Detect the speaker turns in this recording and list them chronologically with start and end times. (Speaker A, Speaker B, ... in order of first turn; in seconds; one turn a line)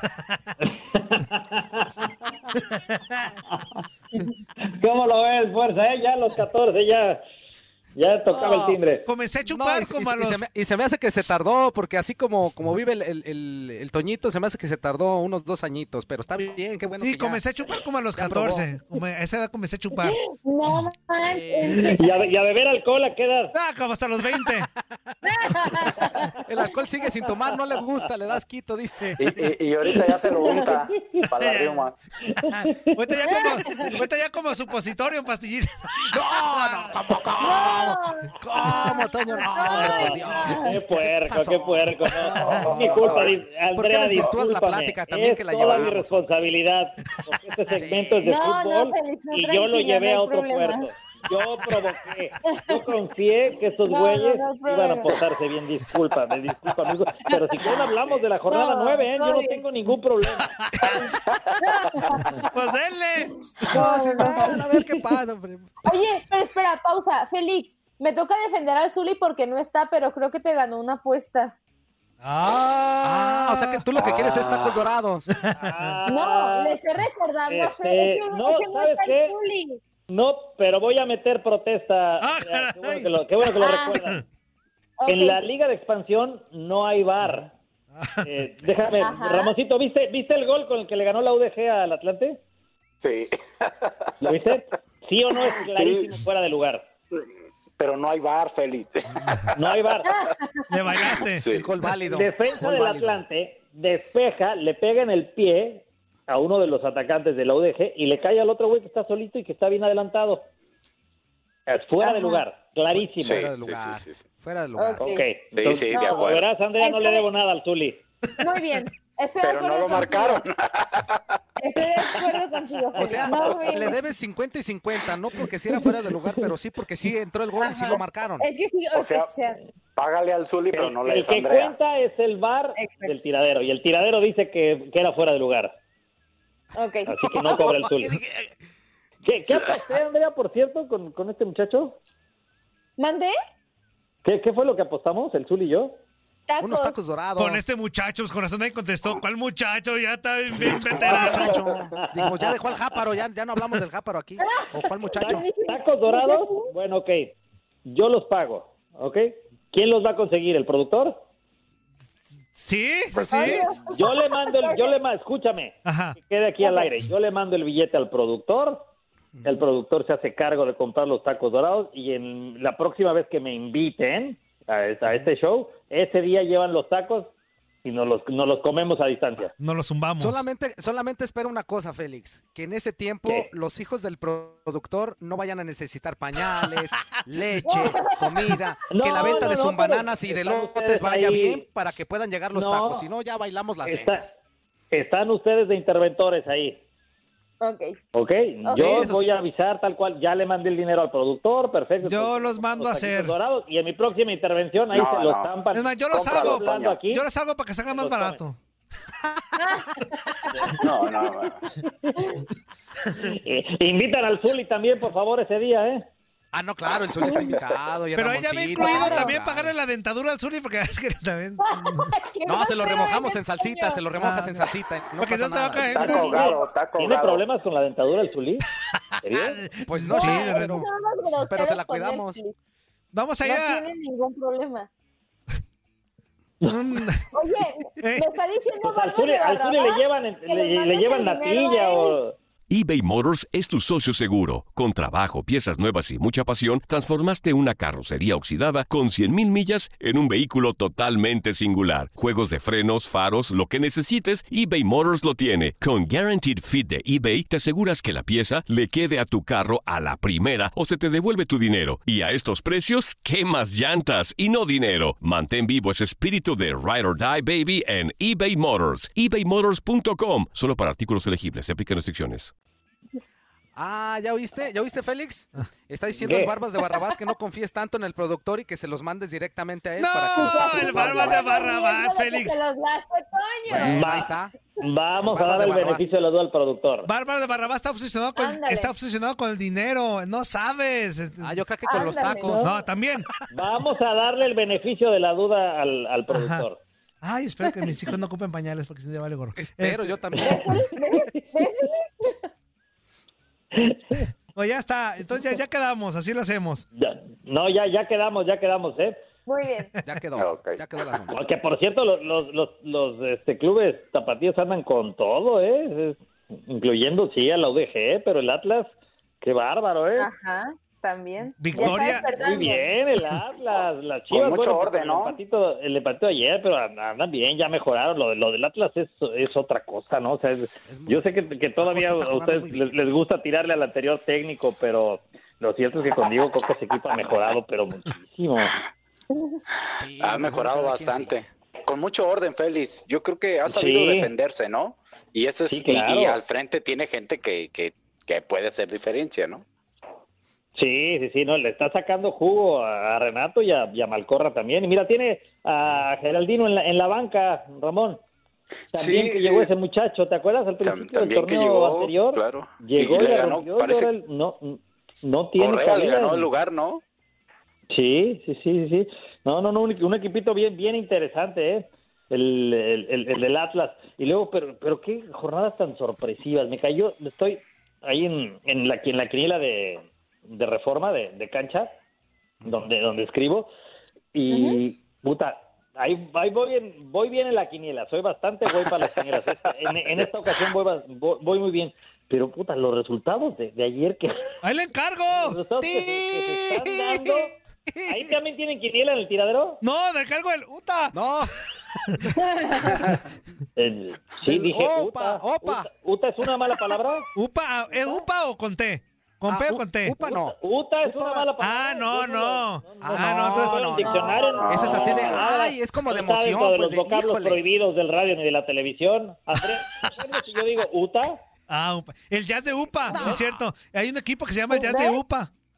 Speaker A: 0.6-2.1
Speaker B: 2.7-3.4
Speaker A: 3.5-3.8
Speaker A: 4.7-7.2
Speaker A: 8.0-9.1
Speaker C: 8.3-8.8
Speaker B: 9.1-10.4
Speaker C: 9.4-17.4
Speaker B: 17.0-20.2
Speaker C: 18.1-18.7
Speaker D: 20.0-22.3
Speaker C: 21.2-22.1
Speaker A: 21.7-23.5
Speaker B: 23.5-24.7
Speaker D: 25.2-26.7
Speaker C: 25.5-29.5
Speaker E: 29.2-31.9
Speaker A: 30.9-31.2
Speaker B: 31.4-31.8
Speaker A: 32.2-33.0
Speaker B: 32.5-36.9
Speaker D: 33.2-33.9
Speaker C: 36.1-46.3
Speaker D: 37.4-40.8
Speaker A: 39.6-60.5
Speaker E: 42.4-43.3
Speaker C: 47.7-48.3
Speaker D: 48.2-50.9
Speaker D: 52.4-52.9
Speaker D: 53.8-55.2
Speaker D: 57.2-57.9
Speaker D: 58.5-59.6
Speaker B: 60.6-61.0
Speaker D: 60.8-62.5
Speaker B: 62.5-63.8
Speaker D: 63.7-64.7
Speaker C: 63.7-65.8
Speaker D: 65.8-71.5
Speaker B: 72.2-73.8
Speaker C: 73.0-75.3
Speaker E: 74.0-74.9
Speaker B: 75.3-76.0
Speaker A: 75.6-76.8
Speaker D: 76.0-79.8
Speaker A: 77.5-79.3
Speaker A: 80.1-84.2
Speaker B: 82.2-83.1
Speaker D: 83.5-84.0
Speaker D: 85.0-85.4
Speaker A: 85.1-87.5
Speaker B: 88.0-88.6
Speaker A: 88.2-92.4
Speaker D: 89.0-89.5
Speaker E: 93.0-94.3
Speaker A: 94.2-96.8
Speaker E: 95.5-96.1
Speaker E: 97.8-99.7
Speaker A: 99.5-100.1
Speaker D: 100.0-100.6
Speaker B: 100.7-101.5
Speaker E: 101.3-101.7
Speaker C: 101.4-103.2
Speaker A: 102.0-110.5
Speaker A: 111.7-113.5
Speaker D: 112.0-112.4
Speaker C: 112.9-115.1
Speaker E: 113.2-114.2
Speaker D: 114.8-115.2
Speaker A: 115.0-118.0
Speaker E: 115.5-116.4
Speaker D: 115.9-117.3
Speaker D: 118.4-120.4
Speaker E: 119.4-121.2
Speaker D: 121.6-124.0
Speaker C: 122.9-128.5
Speaker D: 127.6-129.6
Speaker E: 128.9-129.3
Speaker E: 129.9-131.7
Speaker A: 130.7-135.7
Speaker D: 132.8-133.2
Speaker D: 136.7-137.8
Speaker A: 137.1-138.2
Speaker B: 138.2-138.5
Speaker A: 139.2-142.0
Speaker D: 143.0-143.3
Speaker A: 144.2-146.0
Speaker D: 146.5-147.0
Speaker C: 146.6-147.6
Speaker B: 147.4-151.6
Speaker C: 150.6-155.5
Speaker A: 152.0-152.4
Speaker D: 154.4-156.7
Speaker A: 155.2-157.3
Speaker A: 157.8-161.2
Speaker B: 162.6-163.7
Speaker E: 163.1-163.6
Speaker D: 163.3-165.0
Speaker A: 163.9-168.8
Speaker B: 165.8-166.2
Speaker D: 166.6-166.9
Speaker A: 169.4-177.3
Speaker A: 177.8-179.5
Speaker B: 179.6-180.4
Speaker C: 180.2-194.3
Speaker D: 187.6-189.4
Speaker A: 188.9-191.6
Speaker A: 192.5-193.0
Speaker A: 193.8-194.3
Speaker A: 194.9-196.8
Speaker D: 197.6-198.0
Speaker A: 198.1-207.2
Speaker D: 198.6-199.2
Speaker C: 198.7-199.3
Speaker B: 202.0-203.3
Speaker E: 204.9-205.5
Speaker B: 205.7-208.6
Speaker E: 206.1-207.0
Speaker A: 207.9-208.4
Speaker D: 209.6-211.1
Speaker E: 210.8-211.6
Speaker D: 212.2-212.4
Speaker A: 213.2-216.0
Speaker C: 216.5-219.7
Speaker D: 217.2-217.6
Speaker B: 218.2-222.1
Speaker D: 218.7-219.3
Speaker D: 221.6-224.1
Speaker C: 222.4-226.3
Speaker B: 224.2-224.6
Speaker B: 225.2-226.4
Speaker E: 225.9-227.4
Speaker D: 226.1-226.4
Speaker A: 226.2-228.6
Speaker A: 229.2-229.7
Speaker B: 229.3-230.8
Speaker C: 229.8-230.9
Speaker D: 230.1-232.5
Speaker C: 231.5-232.4
Speaker B: 233.1-233.9
Speaker D: 233.4-234.9
Speaker B: 236.7-237.2
Speaker D: 237.3-242.2
Speaker B: 238.0-238.3
Speaker A: 238.8-242.3
Speaker F: 242.7-272.5
Speaker C: 273.8-281.6
Speaker A: 276.2-276.6
Speaker B: 280.0-282.6
Speaker D: 280.3-284.1
Speaker C: 283.7-284.5
Speaker A: 283.8-287.1
Speaker C: 285.2-286.2
Speaker B: 287.1-291.6
Speaker D: 288.4-288.9
Speaker C: 291.4-292.6
Speaker D: 291.8-292.7
Speaker B: 292.6-293.4
Speaker A: 293.5-296.8
Speaker B: 296.3-296.6
Speaker B: 297.2-300.1
Speaker C: 299.6-300.7
Speaker D: 300.4-302.4
Speaker A: 303.7-304.3
Speaker B: 304.5-306.8
Speaker A: 306.9-309.2
Speaker D: 309.4-309.9
Speaker C: 310.0-311.4
Speaker E: 310.4-310.8
Speaker A: 311.3-318.9
Speaker A: 319.4-320.3
Speaker D: 320.2-322.9
Speaker B: 321.6-322.3
Speaker A: 321.8-338.8
Speaker E: 324.3-325.4
Speaker C: 330.9-331.2
Speaker C: 331.8-333.0
Speaker C: 339.9-341.4
Speaker E: 340.2-349.6
Speaker A: 343.7-344.3
Speaker A: 345.7-346.4
Speaker A: 350.8-358.2
Speaker A: 358.9-366.5
Speaker E: 358.9-359.7
Speaker E: 360.8-364.1
Speaker E: 365.6-367.0
Speaker A: 367.9-381.9
Speaker A: 382.6-383.7
Speaker A: 384.3-394.5
Speaker D: 384.5-384.8
Speaker B: 394.6-396.1
Speaker A: 395.3-399.8
Speaker C: 396.9-398.4
Speaker B: 399.8-401.1
Speaker C: 401.1-401.5
Speaker D: 402.4-403.0
Speaker A: 403.8-407.3
Speaker C: 404.4-405.9
Speaker B: 407.3-410.1
Speaker A: 407.9-408.2
Speaker C: 409.5-411.5
Speaker A: 410.2-421.4
Speaker B: 411.6-414.0
Speaker C: 413.0-417.6
Speaker D: 414.0-415.0
Speaker E: 414.6-415.4
Speaker B: 421.7-425.5
Speaker C: 423.1-423.5
Speaker D: 424.7-425.2